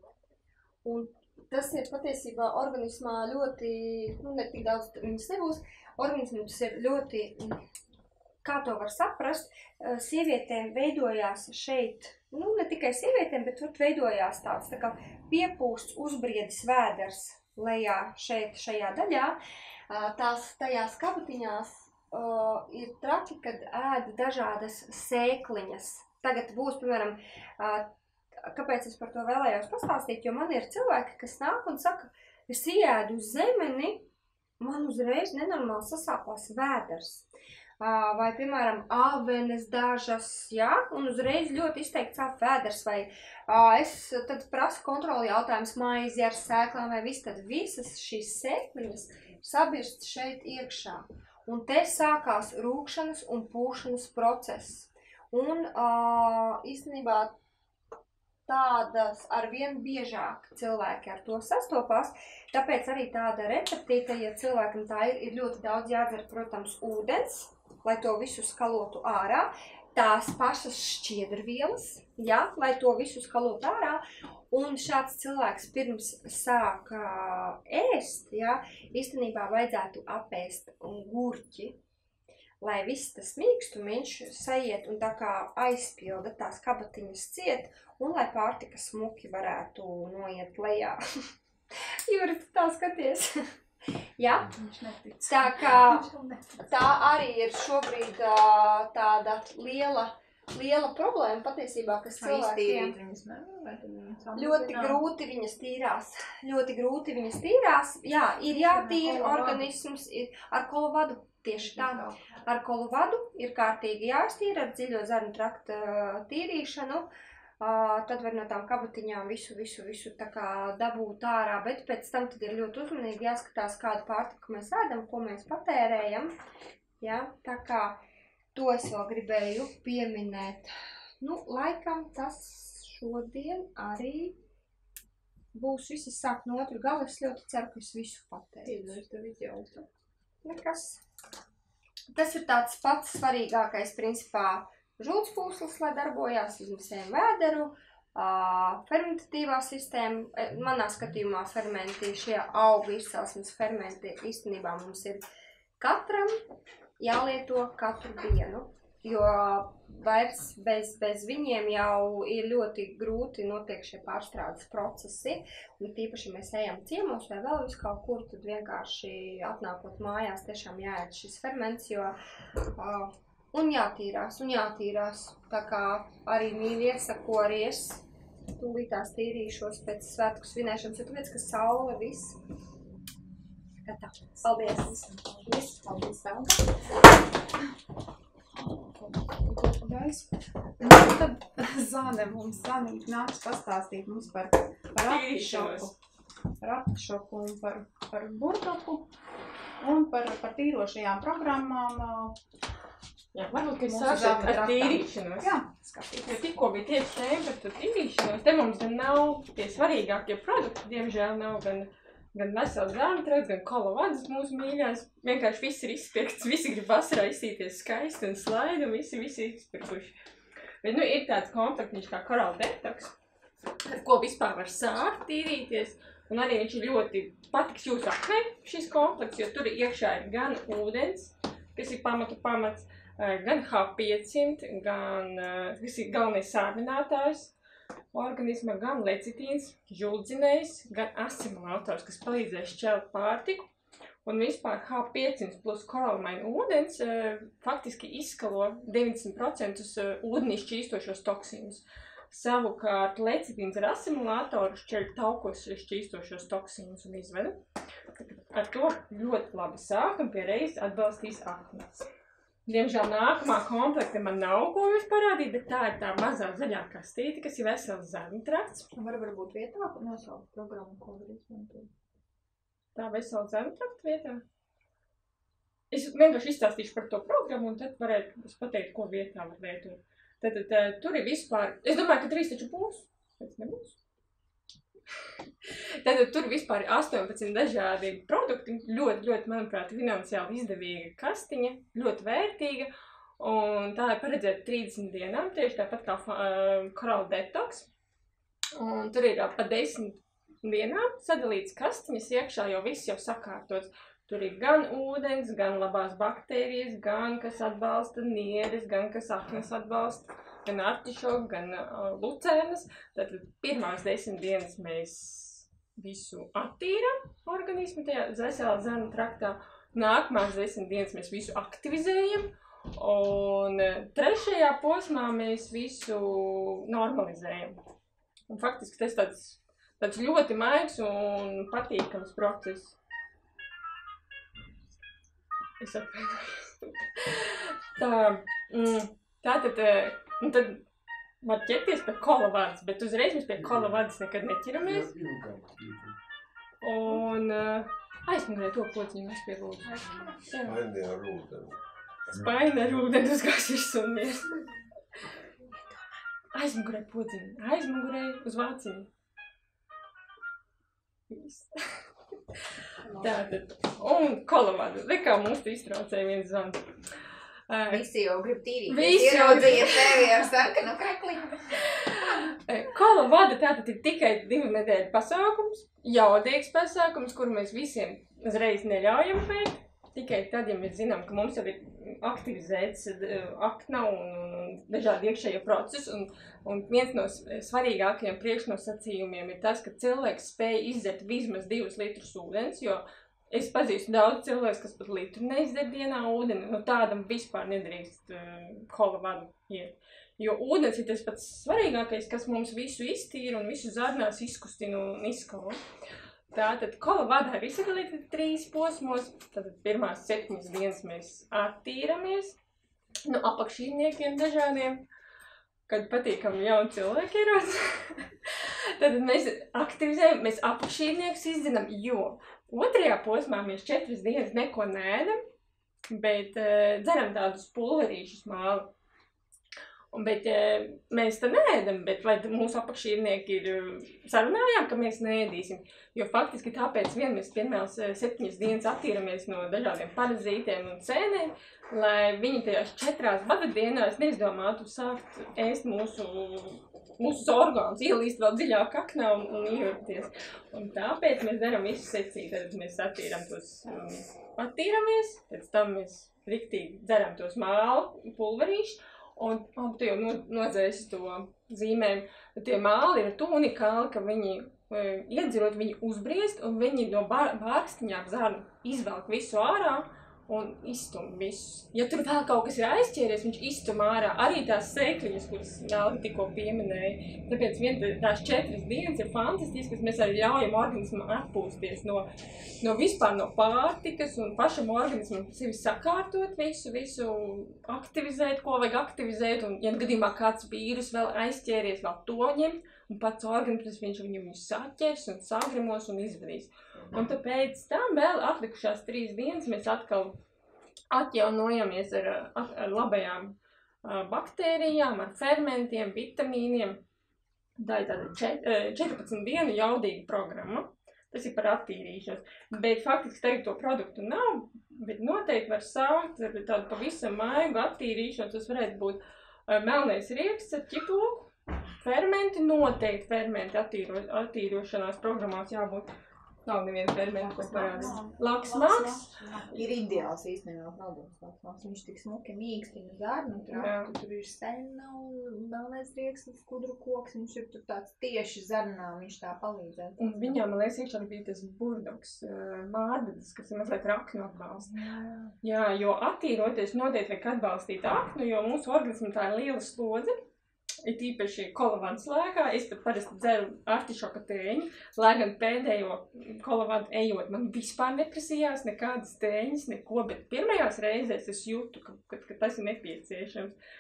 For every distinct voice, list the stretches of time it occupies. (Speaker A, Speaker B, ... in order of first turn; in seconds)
Speaker A: 0.8-7.6, 8.4-19.4, 19.9-34.0, 34.6-37.3, 37.8-57.3, 58.5-81.8, 82.6-94.5, 95.3-96.1, 96.7-103.0, 104.3-117.1, 117.6-126.3, 127.0-128.0, 128.6-134.4, 135.5-139.0, 140.4-141.0, 142.1-155.2, 155.8-156.4, 157.0-172.2, 172.8-178.0, 178.6-182.4, 183.8-185.0
Speaker B: 94.5-96.6, 108.9-109.6, 184.4-186.8, 188.6-195.9, 196.6-199.1, 199.8-202.4, 203.9-206.4, 527.2-530.2
Speaker C: 102.1-105.0, 111.7-112.1, 138.6-139.9, 268.9-271.9, 367.9-372.5, 529.7-540.6, 544.9-545.5
Speaker D: 195.0-195.9, 203.3-205.6, 206.2-220.1, 220.8-223.1, 223.8-237.5, 238.1-243.7, 244.2-257.6, 258.2-262.1, 262.6-268.9, 272.9-274.4, 275.9-283.9, 285.6-297.9, 298.8-327.8, 328.5-333.0, 335.8-340.8, 341.4-345.1, 346.8-349.9, 350.5-350.8, 352.3-354.6, 356.5-359.1, 361.3-362.0, 363.2-366.8, 367.7-368.1, 368.9-370.4, 371.8-405.8, 406.5-412.6, 413.3-415.0, 415.9-425.4, 426.1-428.9, 430.1-482.3, 482.8-500.4, 501.1-507.0, 507.8-521.5, 522.0-526.1, 526.6-529.2, 533.7-534.1, 540.2-545.0, 545.6-550.3, 551.0-563.8
Speaker E: 343.6-344.1, 344.8-346.1, 350.5-351.7